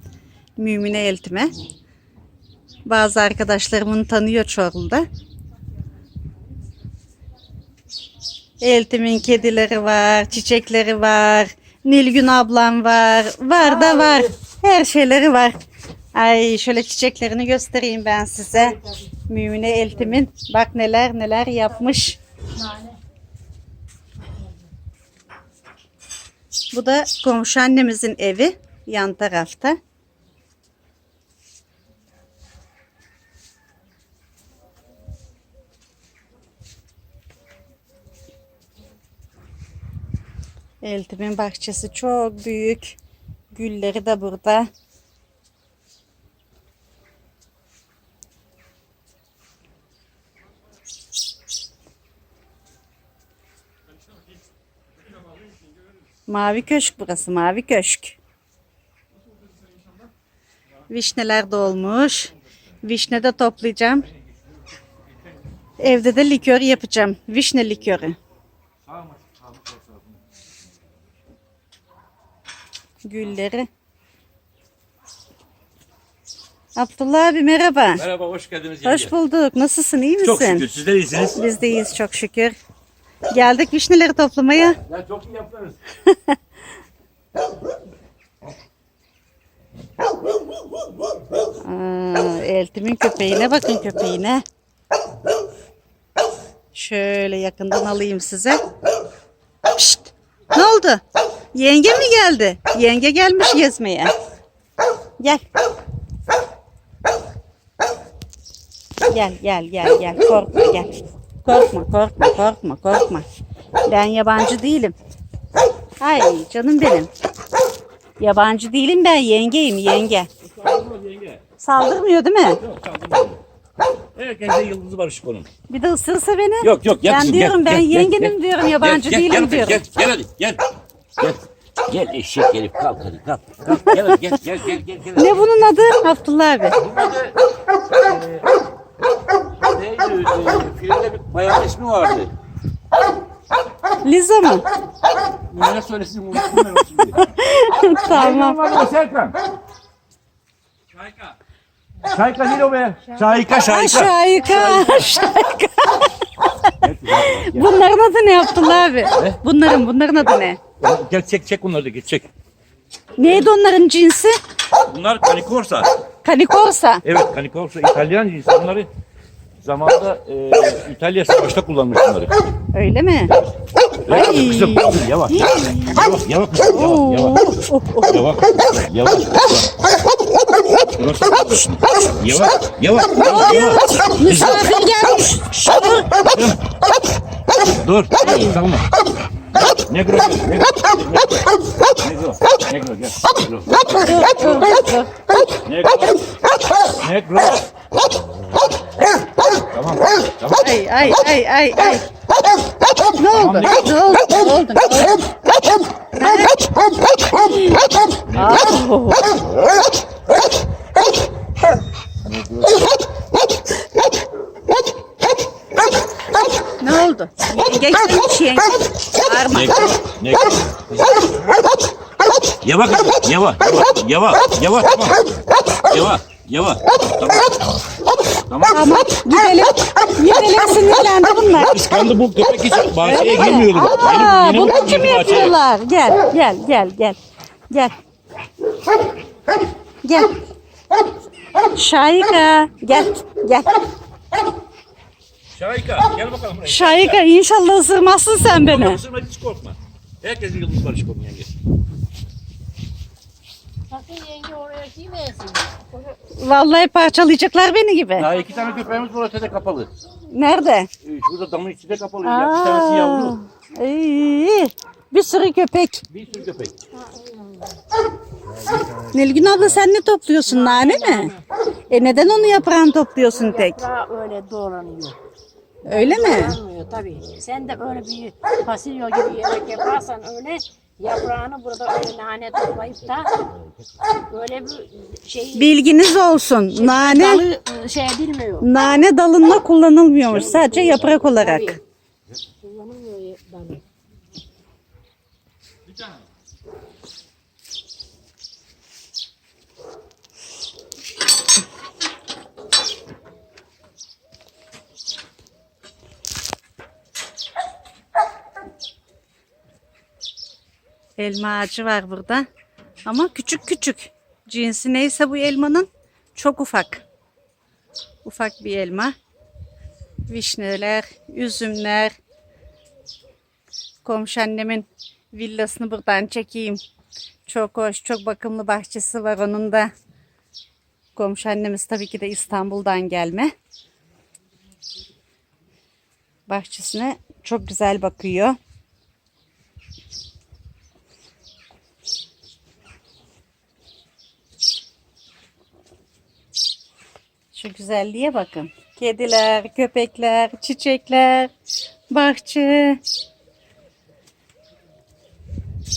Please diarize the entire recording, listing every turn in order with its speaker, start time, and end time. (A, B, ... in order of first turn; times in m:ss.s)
0:00.6-0:01.5 A
0:02.9-0:05.0 A
0:08.6-0:15.6 A
0:13.6-0:14.3 B
0:16.2-0:18.8 A
0:18.6-0:19.0 B
0:19.3-0:22.2 A
0:19.8-0:20.2 B
0:22.6-0:22.9 B
0:26.7-0:29.8 A
0:40.8-0:43.0 A
0:43.5-0:44.7 A
0:56.3-0:58.2 A
1:00.9-1:02.3 A
1:02.8-1:04.1 A
1:05.8-1:08.2 A
1:08.9-1:10.0 C
1:13.0-1:13.7 A
1:16.8-1:18.0 A
1:18.0-1:19.1 C
1:18.8-1:20.7 A
1:20.2-1:21.4 C
1:21.4-1:22.6 A
1:23.3-1:24.8 A
1:24.8-1:25.8 C
1:26.1-1:26.4 A
1:31.6-1:34.4 A
1:36.7-1:38.6 A
1:39.8-1:41.0 A
1:41.5-1:44.1 A
1:49.1-1:53.2 A
1:53.9-1:55.0 A
1:56.0-1:57.1 A
1:58.2-2:00.3 A
2:00.4-2:01.4 C
2:01.6-2:02.6 A
2:02.6-2:03.4 C
2:04.2-2:05.5 C
2:05.7-2:09.8 A
2:06.6-2:10.6 C
2:11.2-2:15.4 C
2:15.2-2:16.8 A
2:16.8-2:17.4 C
2:18.0-2:18.5 C
2:19.6-2:22.3 C
2:24.0-2:24.6 A
2:25.5-2:27.2 C
2:27.1-2:28.6 A
2:28.0-2:29.4 C
2:32.0-2:35.2 C
2:33.7-2:36.1 A
2:34.4-2:35.1 B
2:36.8-2:37.7 C
2:37.1-2:40.6 A
2:40.8-2:42.3 C
2:43.2-2:44.4 A
2:44.9-2:45.9 C
2:46.2-2:47.0 A
2:47.0-2:48.9 C
2:49.6-2:52.3 C
2:52.7-2:53.3 A
2:54.0-2:57.4 C
2:54.1-2:56.0 A
2:56.7-2:58.2 A
2:58.0-2:59.7 C
3:01.0-3:04.7 C
3:03.2-3:06.2 A
3:06.2-3:06.6 C
3:07.6-3:08.9 C
3:08.2-3:08.6 A
3:09.6-3:11.5 C
3:12.0-3:14.8 C
3:13.7-3:15.2 A
3:15.6-3:16.3 C
3:17.0-3:17.6 C
3:19.7-3:21.1 C
3:20.6-3:22.0 A
3:23.2-3:25.2 A
3:23.3-3:24.0 C
3:26.2-3:26.6 A
3:28.3-3:28.8 C
3:28.3-3:29.3 A
3:32.2-3:32.8 C
3:36.8-3:40.0 A
3:39.5-3:41.1 C
3:42.6-3:45.3 C
3:45.8-3:47.7 C
3:48.5-3:49.0 C
3:48.7-3:51.8 A
3:51.5-3:55.6 C
3:53.0-3:57.2 A
4:00.0-4:00.4 A
4:01.8-4:03.7 A
4:05.6-4:07.2 C
4:06.6-4:09.0 A
4:08.5-4:11.5 C
4:13.9-4:15.9 B
4:16.4-4:18.3 A
4:18.2-4:19.9 C
4:20.3-4:20.9 A
4:21.0-4:23.4 C
4:22.2-4:26.0 A
4:26.1-4:26.8 C
4:27.0-4:27.7 B
4:29.1-4:31.3 A
4:30.5-4:31.4 B
4:31.9-4:33.8 A
4:33.2-4:35.2 B
4:35.8-4:43.4 B
4:35.9-4:36.6 A
4:44.3-4:45.8 B
4:45.5-4:47.4 A
4:46.7-4:48.9 B
4:48.6-4:51.8 A
4:50.3-4:51.8 B
4:52.6-4:53.8 B
5:11.2-5:12.5 A
5:13.0-5:17.0 A
5:18.2-5:19.1 A
5:20.3-5:22.2 A
5:24.0-5:26.8 A
5:27.5-5:29.9 A
5:31.2-5:33.5 A
5:36.5-5:38.6 A
5:47.5-5:51.5 A
5:52.1-5:53.0 A